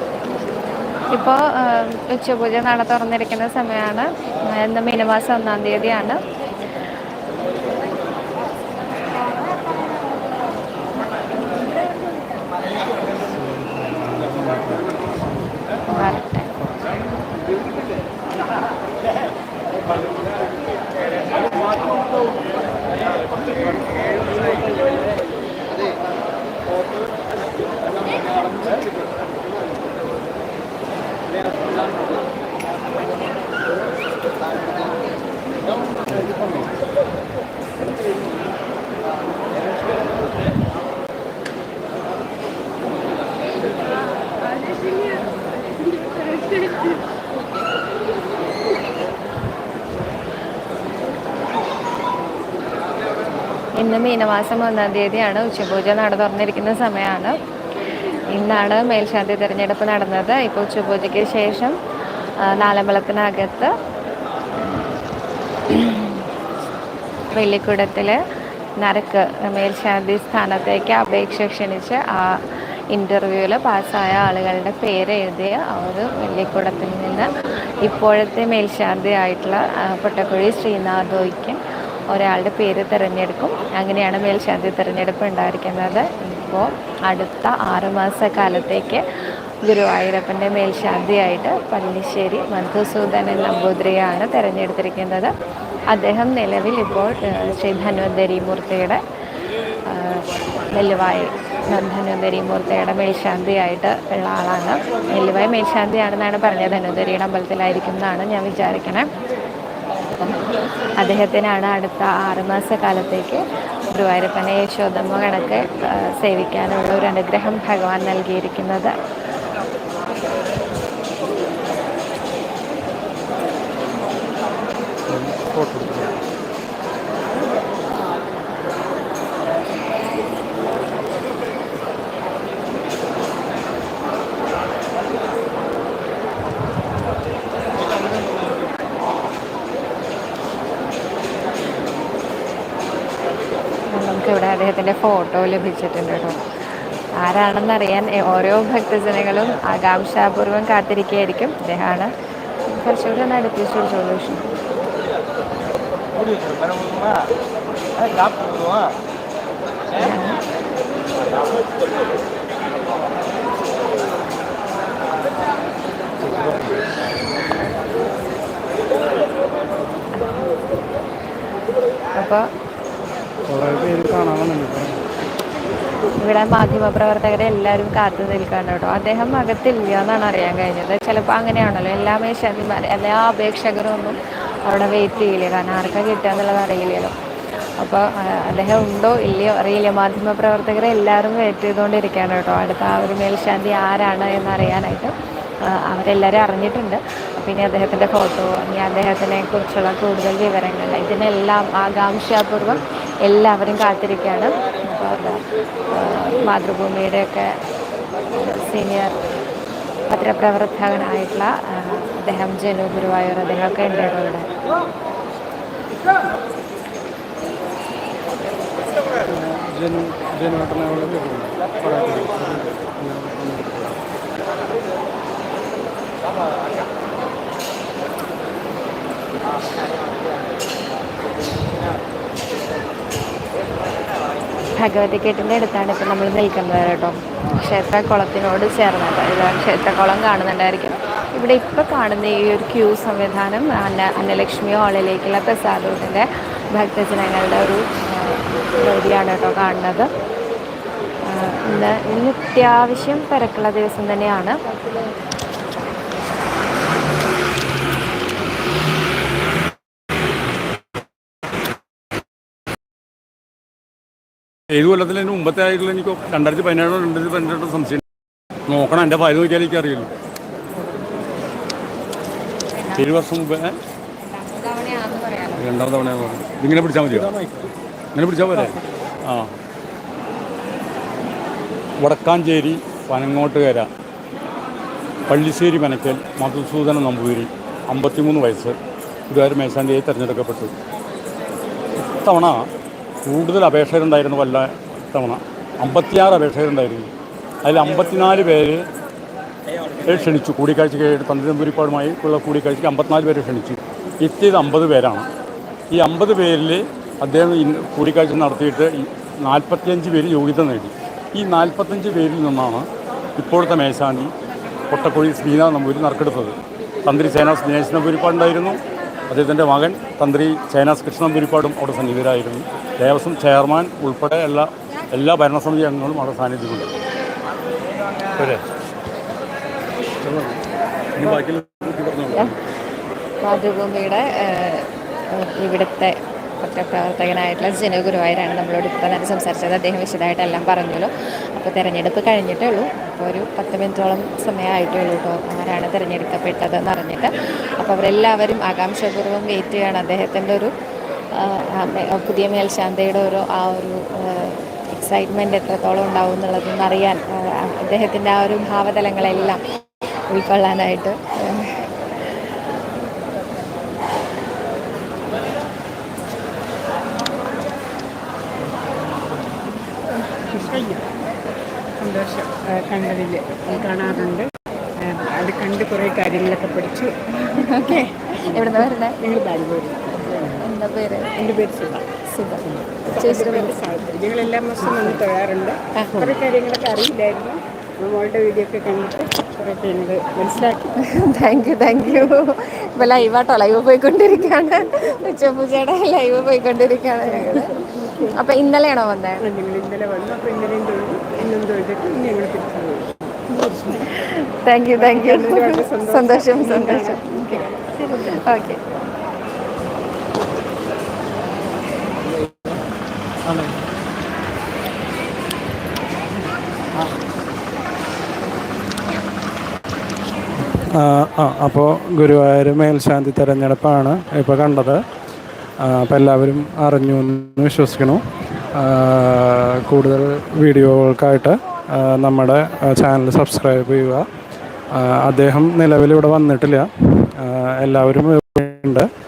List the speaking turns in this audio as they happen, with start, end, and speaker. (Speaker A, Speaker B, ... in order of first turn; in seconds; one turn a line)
Speaker A: 1.1-6.2
Speaker B: 13.3-14.9
Speaker A: 15.9-16.5
Speaker A: 53.8-57.4
Speaker A: 58.3-61.8
Speaker A: 62.4-63.7
Speaker A: 64.6-64.9
Speaker A: 65.7-66.3
Speaker A: 67.3-68.2
Speaker A: 68.8-77.3
Speaker A: 77.8-81.6
Speaker A: 82.1-89.0
Speaker A: 89.6-95.3
Speaker A: 95.9-99.0
Speaker A: 99.8-109.1
Speaker A: 110.9-118.9
Speaker B: 125.1-126.1
Speaker A: 143.9-146.4
Speaker A: 147.2-152.1
Speaker A: 152.7-154.5
Speaker A: 159.9-160.4
Speaker B: 166.2-166.8
Speaker A: 172.1-172.5
Speaker B: 173.5-175.0
Speaker A: 176.2-187.1
Speaker A: 187.8-195.1
Speaker A: 195.7-205.4
Speaker A: 205.9-207.5
Speaker A: 208.3-209.1
Speaker A: 210.1-214.5
Speaker B: 219.3-224.0
Speaker A: 234.7-250.1
Speaker A: 251.2-254.9
Speaker C: 264.7-268.0
Speaker C: 268.7-270.1
Speaker C: 272.9-273.8
Speaker A: 274.2-275.7
Speaker C: 275.6-277.3
Speaker C: 278.1-279.5
Speaker C: 282.0-283.9
Speaker C: 285.3-288.8
Speaker C: 289.3-290.7
Speaker C: 292.0-292.6
Speaker C: 293.2-297.1
Speaker C: 297.6-298.8
Speaker C: 300.0-305.3
Speaker C: 305.9-314.3
Speaker C: 314.9-326.9
Speaker C: 328.4-328.6
Speaker C: 330.2-330.6
Speaker C: 331.1-332.6
Speaker A: 333.4-350.7
Speaker A: 351.3-359.6
Speaker A: 360.3-361.9
Speaker D: 370.5-371.1
Speaker D: 372.0-377.1
Speaker A: 373.7-374.3
Speaker A: 377.3-379.2
Speaker D: 377.7-380.7
Speaker A: 380.6-381.4
Speaker D: 381.4-382.1
Speaker A: 382.2-383.8
Speaker D: 382.7-390.9
Speaker A: 385.9-386.3
Speaker A: 390.9-397.8
Speaker D: 397.4-398.3
Speaker A: 398.3-399.5
Speaker D: 399.4-403.3
Speaker A: 403.5-408.8
Speaker D: 405.0-408.4
Speaker B: 420.6-425.0
Speaker B: 425.8-428.2
Speaker B: 428.7-434.2
Speaker B: 434.9-439.1